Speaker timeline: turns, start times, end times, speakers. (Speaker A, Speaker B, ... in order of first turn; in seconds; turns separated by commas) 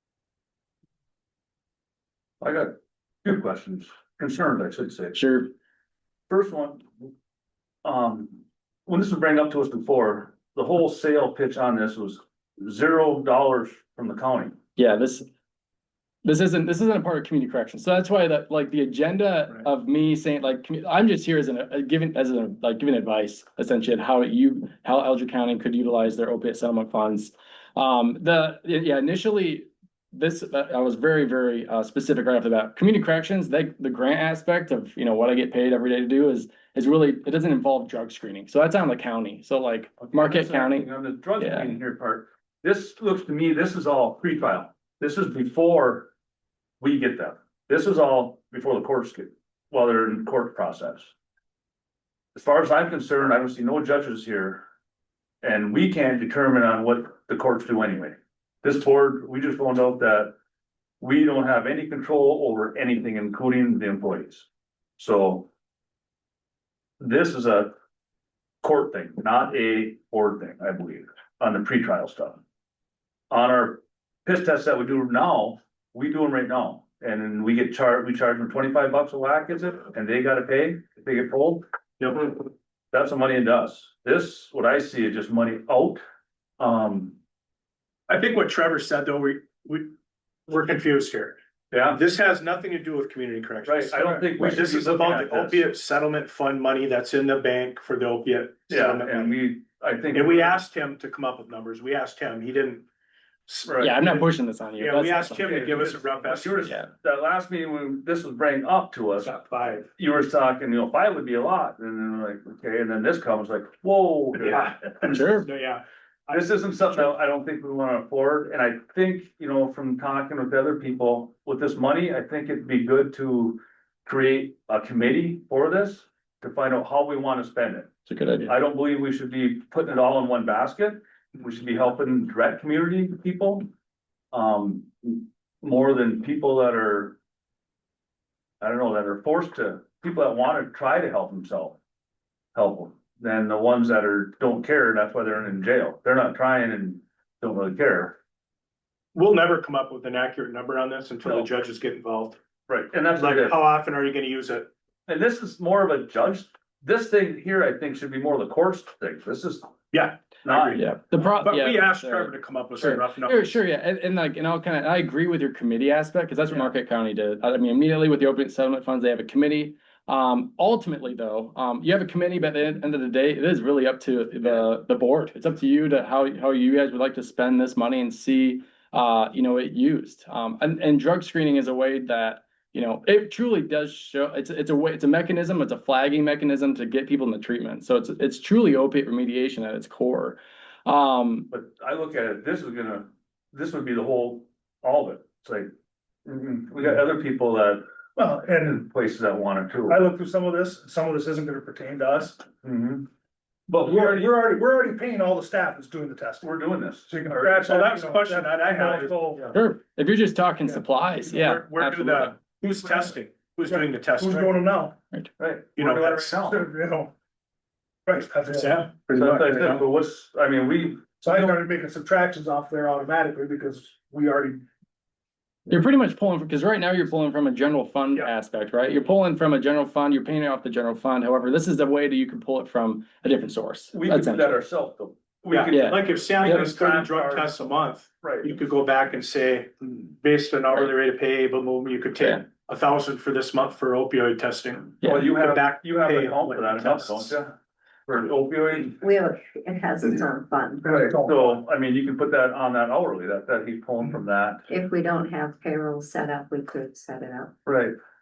Speaker A: 2.4-5.2, Speaker B: 5.2-5.5, Speaker A: 6.3-6.9, Speaker A: 7.8-14.6, Speaker B: 14.8-15.3, Speaker B: 16.2-41.8, Speaker A: 40.0-46.1, Speaker A: 46.8-51.1, Speaker A: 52.4-54.6, Speaker A: 55.4-60.4, Speaker A: 61.0-64.5, Speaker A: 65.0-65.5, Speaker A: 67.0-67.7, Speaker A: 68.6-72.4, Speaker A: 73.3-81.6, Speaker C: 82.0-82.4, Speaker A: 82.9-86.0, Speaker A: 86.6-87.2, Speaker C: 88.1-89.9, Speaker C: 90.5-99.4, Speaker A: 91.7-92.0, Speaker A: 93.7-95.7, Speaker A: 98.7-100.6, Speaker C: 100.1-102.8, Speaker C: 103.5-106.7, Speaker A: 103.7-104.0, Speaker B: 103.8-105.5, Speaker A: 105.4-109.3, Speaker C: 109.2-109.9, Speaker A: 110.0-115.2, Speaker C: 114.4-116.5, Speaker B: 115.0-115.5, Speaker A: 116.3-127.9, Speaker B: 128.1-128.5, Speaker A: 128.4-133.7, Speaker A: 134.3-137.2, Speaker A: 138.6-141.8, Speaker A: 142.6-148.2, Speaker C: 149.1-152.4, Speaker A: 152.7-153.6, Speaker C: 153.2-154.7, Speaker A: 155.1-159.8, Speaker C: 159.9-163.6, Speaker A: 160.4-160.8, Speaker B: 160.8-191.5, Speaker A: 191.5-195.7, Speaker A: 196.2-197.8, Speaker D: 198.2-198.8, Speaker A: 198.7-200.0, Speaker D: 199.9-202.4, Speaker A: 202.6-203.1, Speaker A: 203.7-204.3, Speaker D: 203.8-206.5, Speaker A: 206.4-207.6, Speaker D: 207.1-209.5, Speaker C: 207.6-209.6, Speaker B: 209.5-212.4, Speaker C: 211.2-214.6, Speaker D: 213.7-215.0, Speaker A: 215.4-216.7, Speaker C: 215.8-216.3, Speaker D: 216.3-217.1, Speaker D: 218.1-218.9, Speaker C: 218.5-219.8, Speaker A: 219.1-221.5, Speaker D: 221.2-224.6, Speaker B: 225.7-234.6, Speaker A: 233.9-237.5, Speaker C: 235.5-247.3, Speaker B: 235.7-236.6, Speaker A: 238.2-238.6, Speaker B: 242.2-242.4, Speaker A: 245.0-247.6, Speaker A: 248.1-249.0, Speaker E: 249.0-251.2, Speaker A: 250.9-254.7, Speaker D: 251.0-251.6, Speaker E: 254.7-257.5, Speaker A: 257.7-257.9